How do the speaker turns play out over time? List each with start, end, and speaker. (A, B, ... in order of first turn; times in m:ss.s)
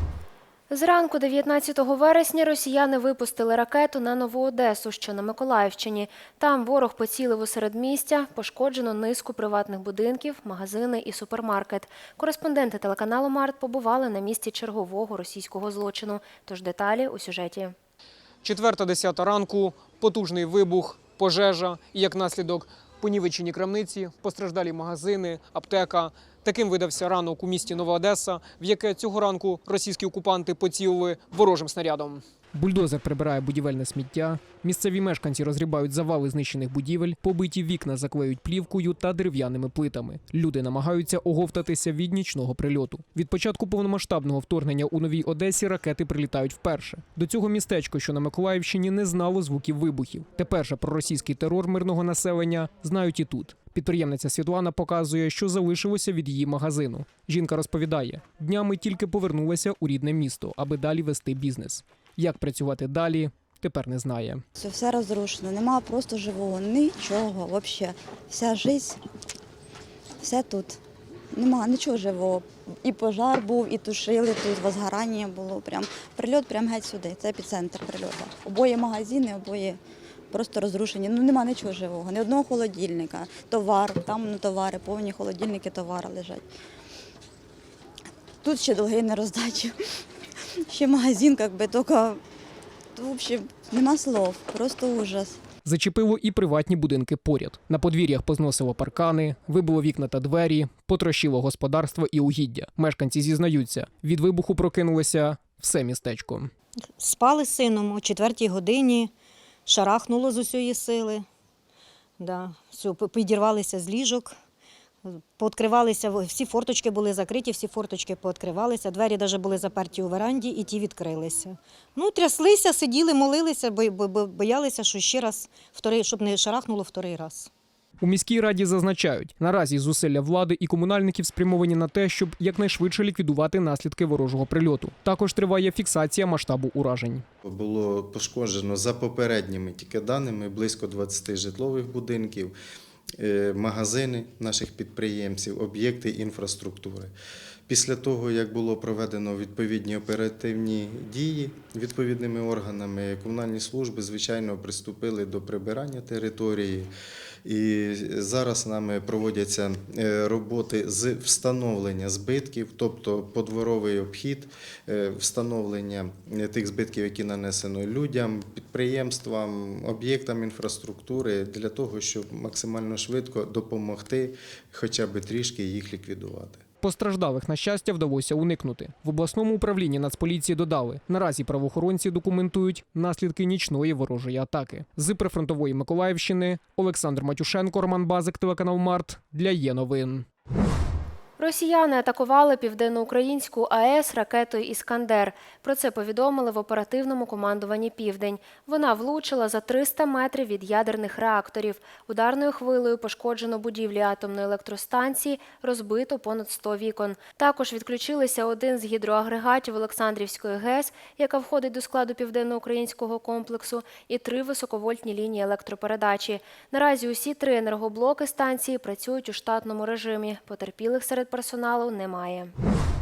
0:00.7-0:17.8 A
0:18.4-1:04.4 B
1:04.6-1:09.0 C
1:10.2-1:10.8 C
1:11.4-1:19.8 C
1:20.3-1:26.4 C
1:28.4-1:29.7 C
1:30.7-1:32.2 C
1:33.0-1:35.4 C
1:35.6-1:46.5 B
1:47.0-1:49.1 D
1:49.7-1:51.2 D
1:52.2-1:54.4 D
1:55.4-2:07.5 D
2:08.0-2:17.2 B
2:17.4-2:22.6 E
2:23.2-2:27.1 E
2:27.7-2:36.9 E
2:37.4-2:56.6 E
2:56.8-3:10.3 B
3:11.4-3:42.5 A